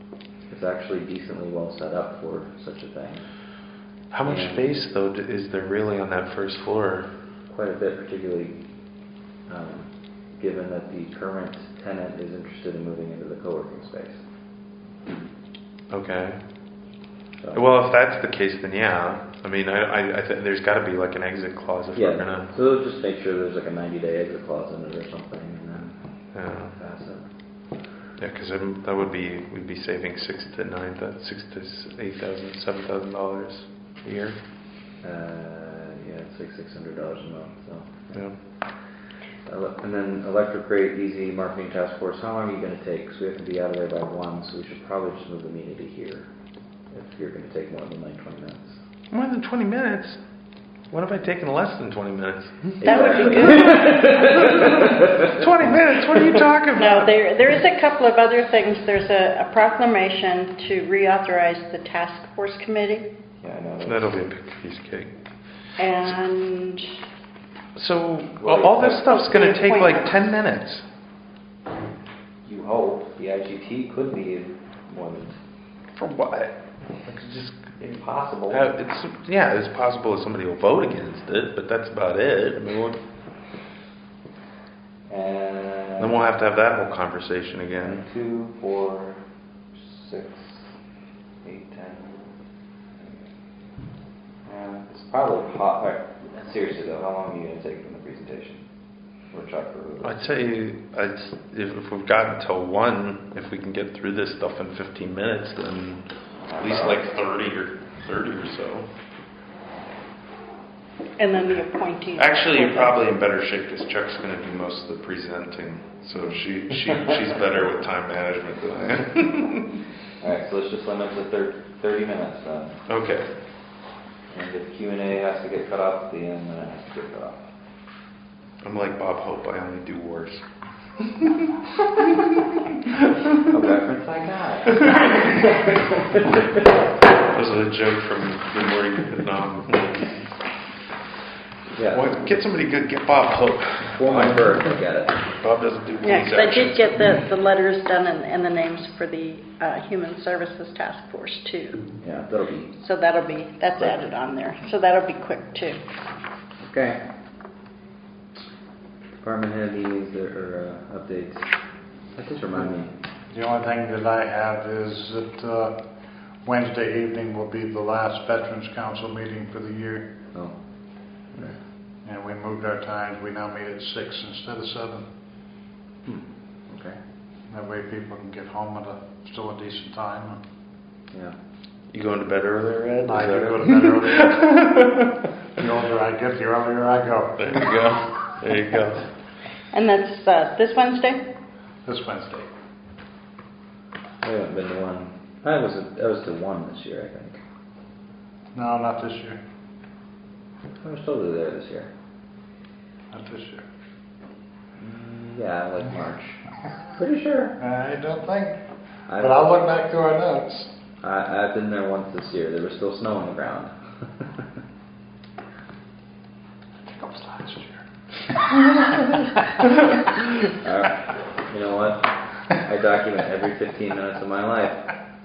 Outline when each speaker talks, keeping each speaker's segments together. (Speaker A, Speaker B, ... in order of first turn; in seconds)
Speaker A: 0.5-3.5, 4.2-4.8, 7.5-8.7, 9.5-14.3, 17.4-17.7, 21.9-26.0, 26.6-27.3, 35.0-46.3, 46.9-48.8, 52.8-56.4, 63.4-64.2, 68.4-69.3, 72.4-75.4, 77.8-78.7, 85.1-86.2, 87.8-89.2, 89.7-90.7, 91.4-92.1, 93.0-93.3, 94.4-98.7, 99.3-100.5, 106.4-107.0, 120.2-122.8, 124.3-127.5, 133.5-136.6, 141.7-142.3, 143.9-145.2, 152.0-152.7, 156.6-157.0, 159.2-161.6, 162.1-162.9, 176.1-177.0, 194.2-197.4, 200.8-201.9, 204.8-207.6, 209.1-209.7, 211.0-214.4, 220.5-224.9
Speaker B: 4.1-7.1, 15.9-16.8, 17.5-22.5, 26.3-26.8, 28.2-34.4, 49.1-50.2, 50.9-54.6, 55.2-57.2, 63.8-65.2, 67.8-70.8, 76.0-77.8, 78.5-83.0, 86.0-88.0, 100.0-108.9, 112.2-119.8, 122.9-123.3, 128.6-130.4, 131.0-131.5, 137.3-140.2, 141.9-144.7, 145.3-147.1, 181.9-185.3, 187.4-189.1
Speaker C: 52.8-54.2, 56.8-63.1, 65.8-66.9, 69.1-70.1, 111.2-113.0, 146.0-152.0, 152.8-155.8, 189.7-191.3
Speaker D: 163.3-165.8, 166.4-170.1, 172.1-175.1, 177.5-180.4, 183.1-184.6, 185.6-187.5, 191.8-192.5, 198.6-199.4, 203.1-203.7, 207.6-208.6, 209.2-210.7, 216.9-217.8